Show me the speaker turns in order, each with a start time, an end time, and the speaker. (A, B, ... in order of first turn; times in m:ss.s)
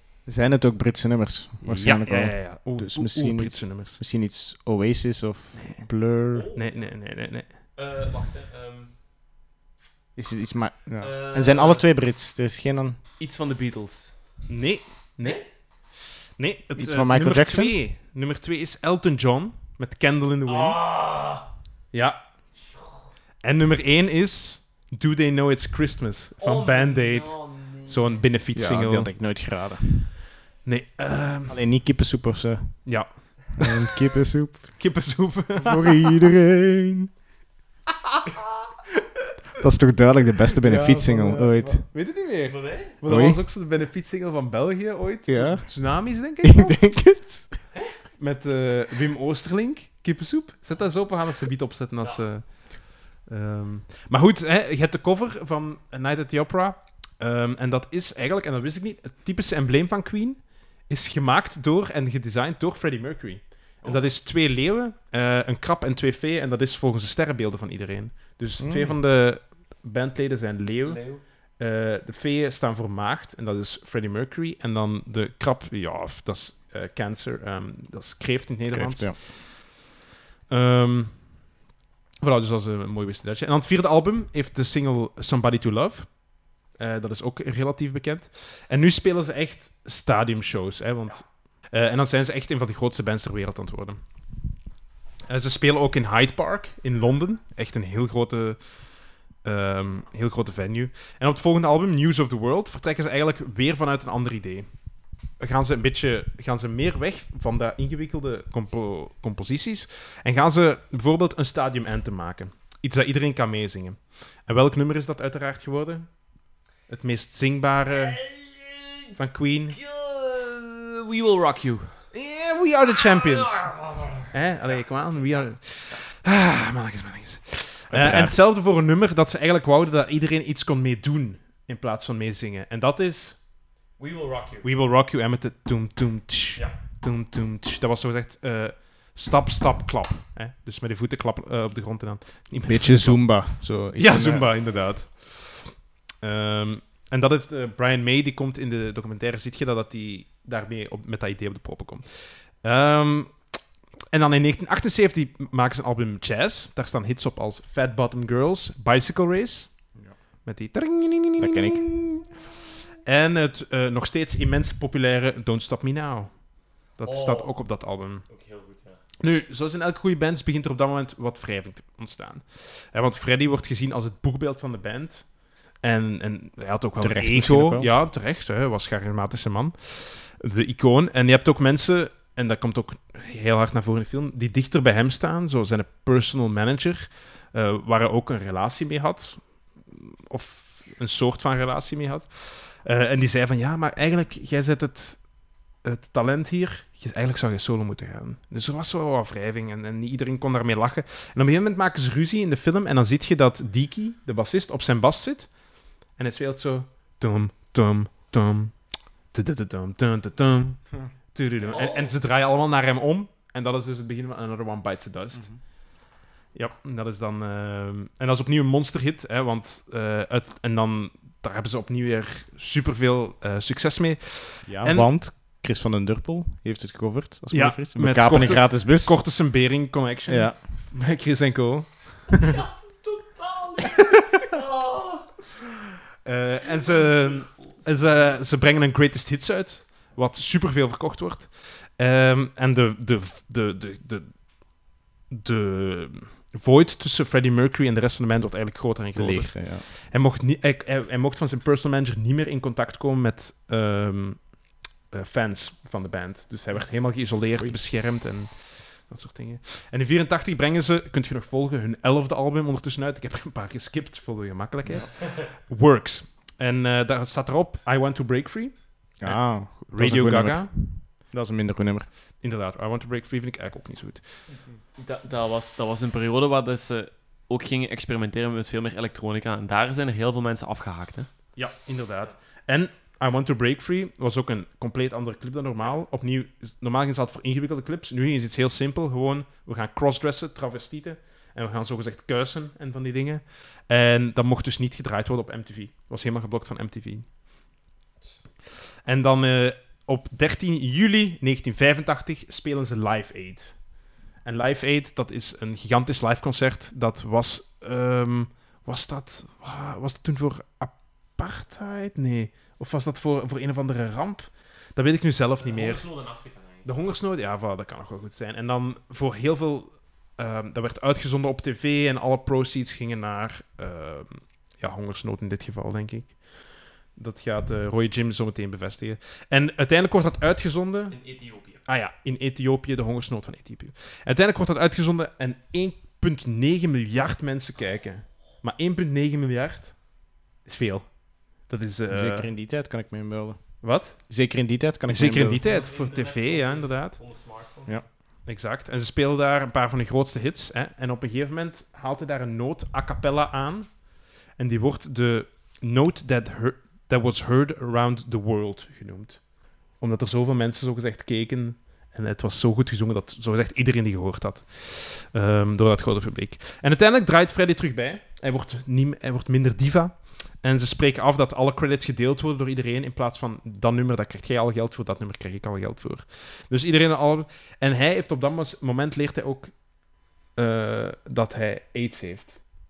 0:00.3-0:06.5 A
0:01.7-0:04.0 B
0:05.6-0:05.9 B
0:06.3-0:09.0 C
0:06.5-0:07.7 B
0:10.2-0:13.0 A
0:11.0-0:12.0 C
0:13.2-0:14.4 C
0:14.5-0:20.9 B
0:15.2-0:15.5 C
0:16.8-0:17.8 A
0:20.5-0:21.5 C
0:21.9-0:22.5 B
0:23.4-0:29.3 B
0:26.4-0:28.3 C
0:28.5-0:30.1 A
0:30.6-0:31.6 B
0:31.5-0:34.9 A
0:32.8-0:33.7 B
0:34.7-0:36.1 B
0:35.6-0:37.1 A
0:39.6-0:41.9 A
0:40.6-0:46.9 B
0:42.4-0:42.9 C
0:43.1-0:43.4 A
0:45.3-0:47.7 A
0:48.2-1:19.7 B
0:52.0-0:52.5 C
1:03.8-1:04.2 C
1:08.6-1:09.0 A
1:10.8-1:11.3 C
1:18.7-1:19.2 A
1:20.5-1:21.5 B
1:22.2-1:34.5 B
1:35.3-1:58.2 B
1:57.9-1:59.1 C
1:59.2-1:59.8 B
1:59.7-2:02.1 C
2:02.1-2:13.5 B
2:02.9-2:06.0 C
2:07.9-2:08.4 A
2:14.0-2:14.7 C
2:14.6-2:23.3 B
2:16.6-2:16.8 C
2:22.6-2:24.5 A
2:23.9-2:33.6 B
2:34.1-2:42.4 B
2:41.4-2:41.9 A
2:43.1-2:48.3 B
2:47.0-2:49.0 C
2:49.2-3:45.1 B
2:57.0-2:57.9 A
3:31.7-3:32.2 C
3:35.3-3:35.6 A
3:44.6-3:49.2 A
3:47.5-3:52.4 B
3:50.3-3:50.6 A
3:52.3-3:55.4 C
3:56.2-4:04.6 B
3:56.8-3:57.2 C
4:05.3-4:14.6 B
4:09.1-4:09.9 A
4:15.1-4:30.8 B
4:29.2-4:32.1 A
4:32.4-4:34.5 B
4:35.0-4:41.3 C
4:41.5-4:57.3 B
4:59.0-5:03.9 B
5:04.4-5:16.1 B
5:15.6-5:17.0 C
5:16.8-5:31.2 B
5:31.1-5:31.8 C
5:31.8-5:42.5 B
5:42.1-5:45.6 A
5:43.8-5:44.3 B
5:45.0-5:47.2 B
5:45.4-5:48.1 C
5:48.2-6:19.8 B
6:20.5-6:22.7 B